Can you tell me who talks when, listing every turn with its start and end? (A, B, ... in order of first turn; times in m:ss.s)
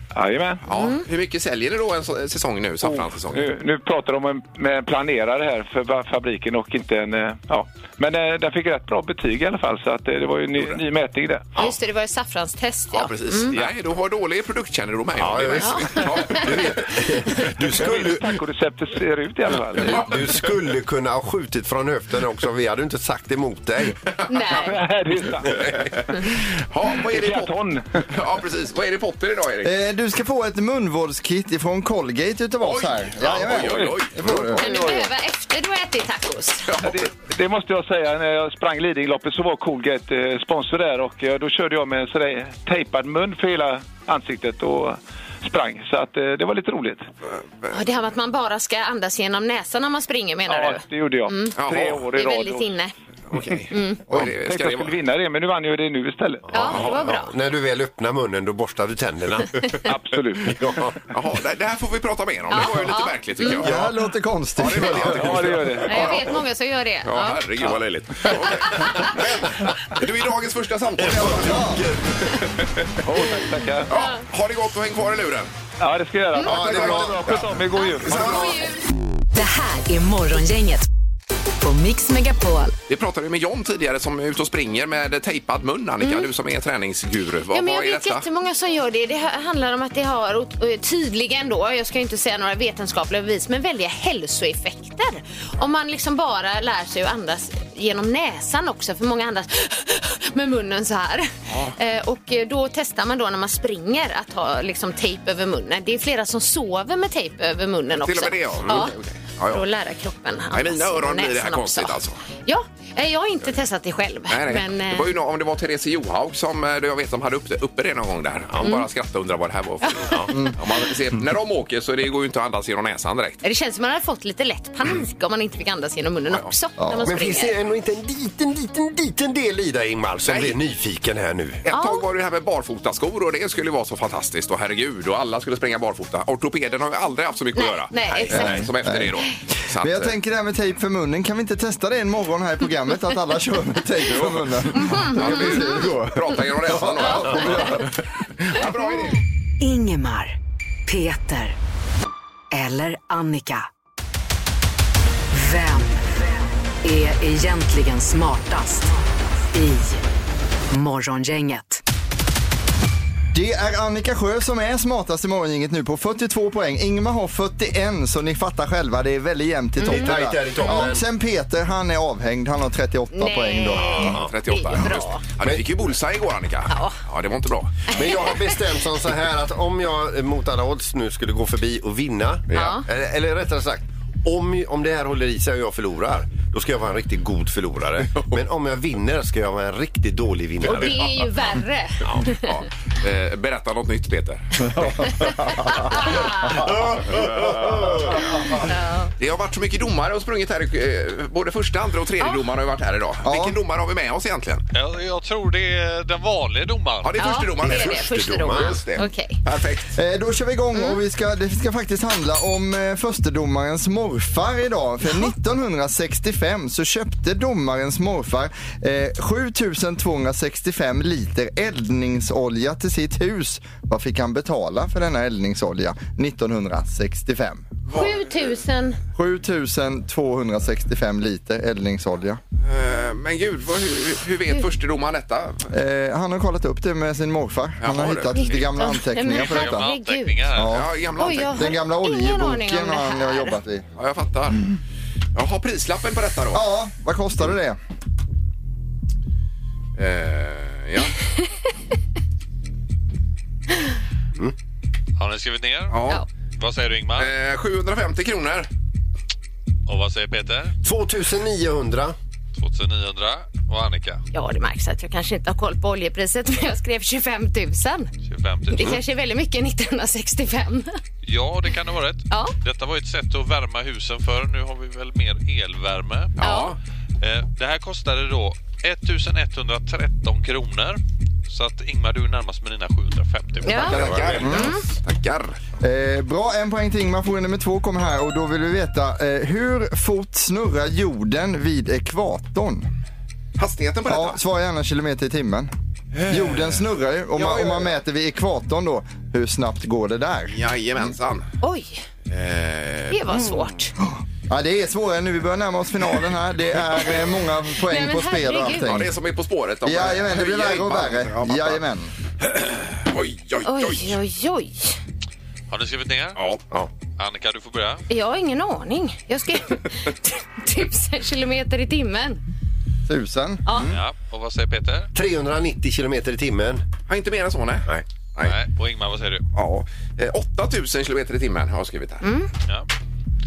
0:00.1-0:00.6 A
0:00.6-0:03.4 B
0:00.7-0:01.0 C
0:03.3-0:11.5 A
0:11.6-0:13.6 C
0:12.9-0:16.8 B
0:15.2-0:18.4 D
0:15.6-0:16.5 C
0:17.7-0:20.1 A
0:19.8-0:24.0 D
0:24.3-0:24.7 C
0:24.6-0:26.3 A
0:25.5-0:27.5 B
0:26.9-0:28.1 A
0:28.1-0:29.7 B
0:29.6-0:34.6 E
0:32.6-0:34.5 B
0:33.6-0:35.1 A
0:34.6-0:36.7 C
0:36.7-0:37.0 B
0:36.8-0:47.1 A
0:47.4-0:47.7 B
0:47.7-0:51.6 C
0:50.5-0:52.7 A
0:51.6-0:52.0 B
0:52.1-0:52.9 C
0:53.3-0:54.9 B
0:53.7-0:54.0 C
0:54.1-0:56.4 A
0:56.5-1:01.0 D
0:56.5-0:57.3 C
0:59.9-1:00.7 A
1:01.1-1:03.8 B
1:02.5-1:03.6 C
1:03.6-1:05.2 E
1:04.6-1:06.4 B
1:05.0-1:06.2 A
1:05.9-1:07.4 C
1:07.0-1:11.7 B
1:08.7-1:09.0 C
1:11.0-1:12.4 D
1:11.0-1:11.8 E
1:13.0-1:15.5 B
1:13.1-1:13.9 A
1:15.8-1:18.5 A
1:16.4-1:16.9 C
1:16.4-1:18.6 D
1:17.7-1:18.8 C
1:19.3-1:20.8 F
1:21.6-1:22.7 F
1:22.9-1:28.2 B
1:26.0-1:26.3 C
1:27.5-1:48.9 C
1:41.5-1:41.8 B
1:48.0-1:49.6 B
1:49.5-1:55.1 C
1:50.5-1:52.2 B
1:54.3-2:03.4 B
1:59.8-2:00.1 C
2:00.3-2:00.6 E
2:03.4-2:07.5 C
2:06.8-2:07.1 E
2:07.0-2:11.6 D
2:10.2-2:10.6 B
2:11.6-2:20.1 B
2:11.7-2:12.0 C
2:17.5-2:18.7 C
2:18.3-2:19.2 E
2:19.7-2:27.9 E
2:24.2-2:24.4 B
2:24.7-2:25.8 C
2:25.0-2:29.2 B
2:27.0-2:27.5 C
2:29.6-2:30.4 F
2:30.9-2:31.6 F
2:32.5-2:33.6 F
2:35.3-2:36.3 F
2:36.8-2:38.9 F
2:39.5-2:40.0 F
2:40.7-2:41.8 F
2:43.3-2:54.2 E
2:49.8-2:50.9 C
2:49.8-2:51.0 D
2:53.1-2:55.2 C
2:53.9-2:54.3 D
2:54.0-2:57.9 B
2:56.7-2:57.0 C
2:57.9-2:58.6 C
2:57.9-3:11.2 D
3:02.5-3:02.8 C
3:10.6-3:12.5 C
3:12.3-3:15.2 B
3:15.2-3:16.7 C
3:16.4-3:18.6 D
3:18.6-3:19.1 C
3:19.2-3:24.6 B
3:23.2-3:23.6 E
3:24.7-3:27.2 G
3:27.0-3:30.0 B
3:27.2-3:29.4 C
3:27.6-3:28.8 D
3:30.0-3:47.7 E
3:47.9-3:48.5 B
3:47.9-3:49.0 C
3:49.2-3:52.4 E
3:52.6-3:55.7 B
3:55.7-3:59.9 E
3:57.8-3:58.4 B
3:58.3-4:00.4 C
3:59.2-4:00.8 G
4:00.5-4:03.8 E
4:00.7-4:01.6 B
4:01.2-4:03.6 C
4:04.0-4:04.7 B
4:05.3-4:06.6 B
4:06.5-4:07.8 E
4:10.0-4:11.2 B
4:15.2-4:17.3 G
4:15.9-4:16.2 B
4:17.2-4:18.7 B
4:19.9-4:20.7 G
4:20.8-4:22.2 D
4:22.6-4:24.2 G
4:24.3-4:28.1 C
4:28.2-4:29.0 G
4:28.7-4:31.0 C
4:31.2-4:36.4 G
4:32.3-4:32.5 C
4:36.4-4:36.8 B
4:36.4-4:36.7 C
4:37.2-4:44.2 G
4:43.6-4:44.8 C
4:43.7-4:45.6 B
4:43.7-4:44.7 D
4:44.4-4:44.7 E
4:45.8-4:52.9 E
4:53.6-4:54.4 B
4:54.0-4:55.7 E
4:56.1-4:56.8 B
4:56.3-5:00.6 E
4:57.3-4:57.9 B
5:00.5-5:01.5 B
5:01.6-5:02.0 C
5:02.3-5:03.5 B
5:03.1-5:03.9 C
5:04.0-5:09.1 E
5:07.8-5:08.9 C
5:08.8-5:11.8 B
5:09.8-5:12.1 E
5:12.4-5:14.2 B
5:13.6-5:15.0 C
5:15.7-5:16.4 G
5:16.4-5:16.6 B
5:17.2-5:18.0 G
5:18.1-5:22.4 C
5:23.0-5:24.0 E
5:23.6-5:23.9 C
5:23.8-5:25.1 G
5:25.1-5:26.8 D
5:27.1-5:28.6 B
5:28.4-5:29.4 G
5:29.5-5:32.2 B
5:32.2-5:32.5 C